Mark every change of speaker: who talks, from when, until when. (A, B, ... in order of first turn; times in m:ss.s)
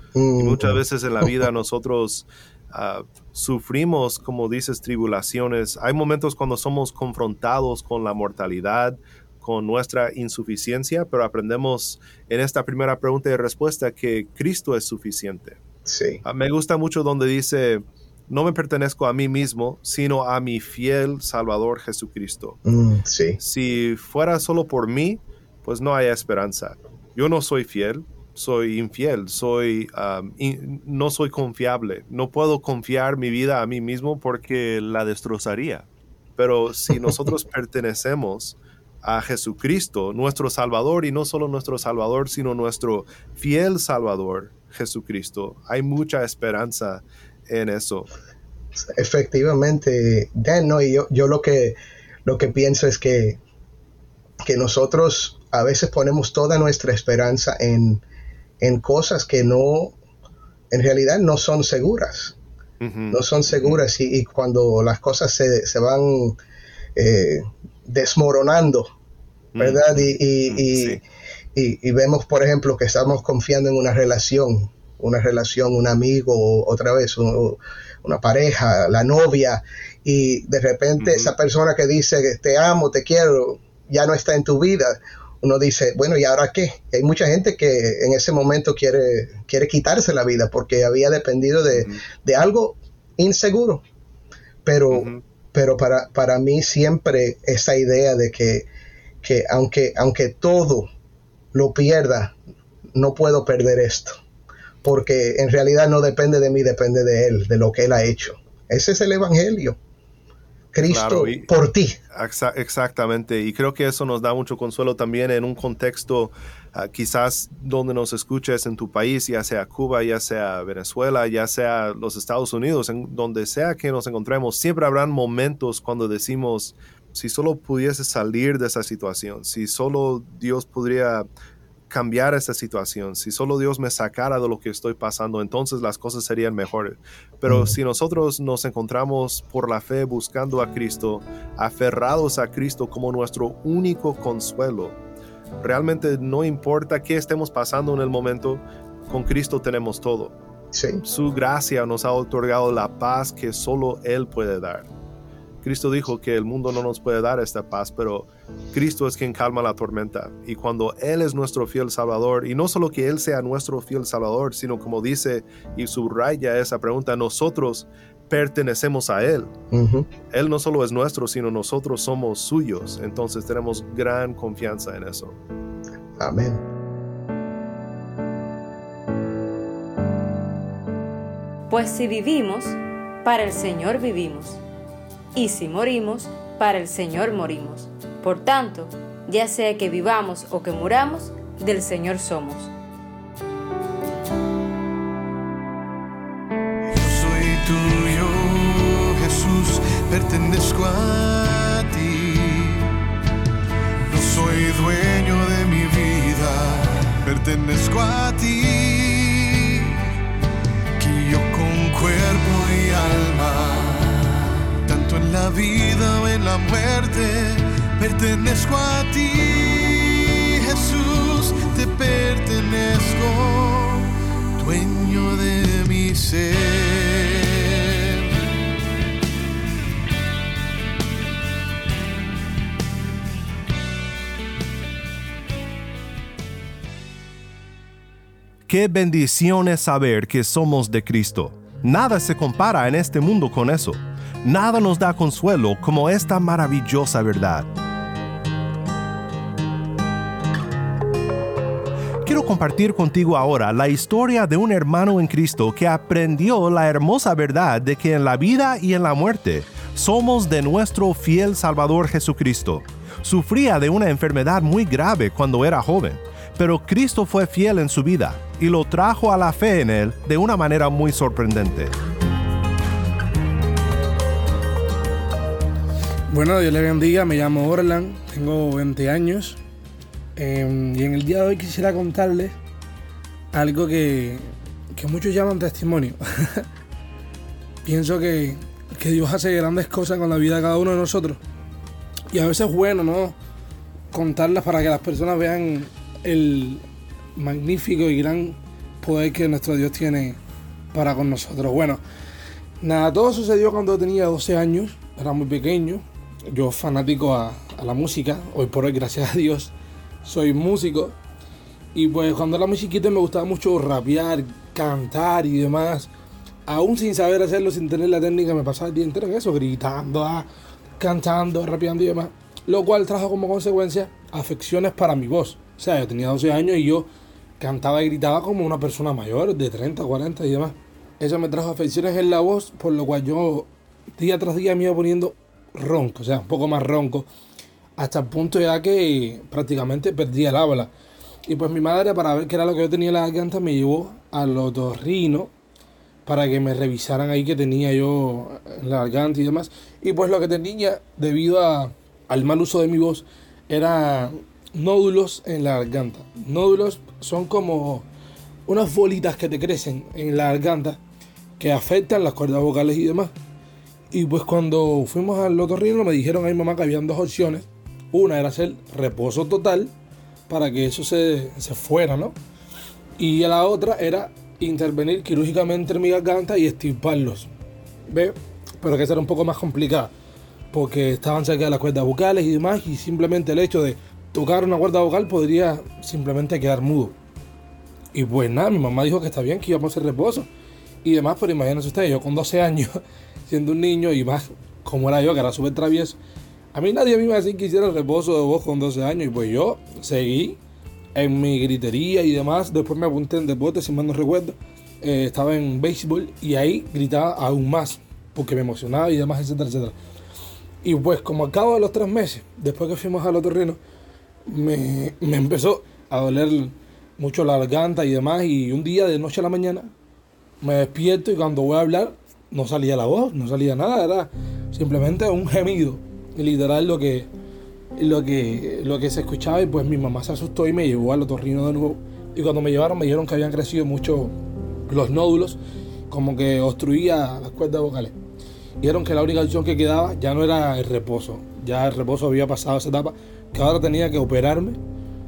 0:00.1-0:01.4 A
0:00.4-0:15.6 B
0:15.8-0:16.2 A
0:16.2-0:22.6 B
0:22.6-0:23.4 A
0:23.4-0:48.1 B
0:48.8-0:53.4 A
0:54.4-0:58.0 A
0:58.6-1:00.0 A
1:00.7-1:02.4 A
1:02.8-1:03.8 B
1:03.1-1:06.4 A
1:07.0-1:08.9 A
1:09.5-1:11.0 B
1:09.6-1:11.0 A
1:11.5-1:33.8 A
1:21.0-1:21.3 B
1:31.7-1:32.0 B
1:34.6-1:38.7 A
1:34.9-1:35.2 B
1:39.2-1:40.9 A
1:41.5-1:42.4 A
1:42.9-1:44.2 A
1:44.8-1:49.8 A
1:50.7-1:52.0 A
1:50.8-1:51.5 B
1:52.1-2:11.3 B
2:11.9-2:25.0 B
2:17.5-2:17.7 A
2:25.6-2:30.3 B
2:30.7-2:31.0 A
2:31.0-2:34.9 B
2:35.6-2:49.5 B
2:49.7-2:50.1 A
2:50.3-2:55.4 B
2:56.2-2:56.6 A
3:01.7-3:04.6 C
3:05.3-3:12.7 C
3:16.9-3:22.9 D
3:24.0-3:30.0 D
3:31.0-3:34.2 D
3:34.8-3:48.2 D
3:58.7-4:07.7 B
4:12.2-4:32.0 B
4:36.3-4:39.6 E
4:40.4-4:42.5 E
4:43.5-4:46.7 E
4:47.8-4:51.4 E
4:52.3-4:53.3 E
4:54.1-4:56.8 E
4:57.4-5:00.4 E
5:00.9-5:02.0 E
5:02.8-5:09.7 E
5:10.2-5:11.1 E
5:11.9-5:16.1 E
5:16.7-5:20.5 E
5:21.0-5:27.1 E
5:27.6-5:37.3 E
5:38.0-5:40.9 E
5:41.5-5:45.5 E
5:46.2-5:58.0 E
5:58.7-6:01.0 E
6:01.6-6:03.3 E
6:04.1-6:09.9 E
6:10.5-6:12.3 E
6:13.2-6:17.5 E
6:18.1-6:20.1 E
6:20.7-6:27.1 E
6:28.1-6:30.5 E
6:31.0-6:36.2 E
6:36.7-6:40.6 E
6:41.2-6:49.9 E
6:50.8-6:53.8 E
6:54.5-6:59.9 E
7:00.6-7:07.3 E
7:08.0-7:14.3 E
7:14.9-7:15.6 E
7:16.1-7:18.1 E
7:18.8-7:24.8 E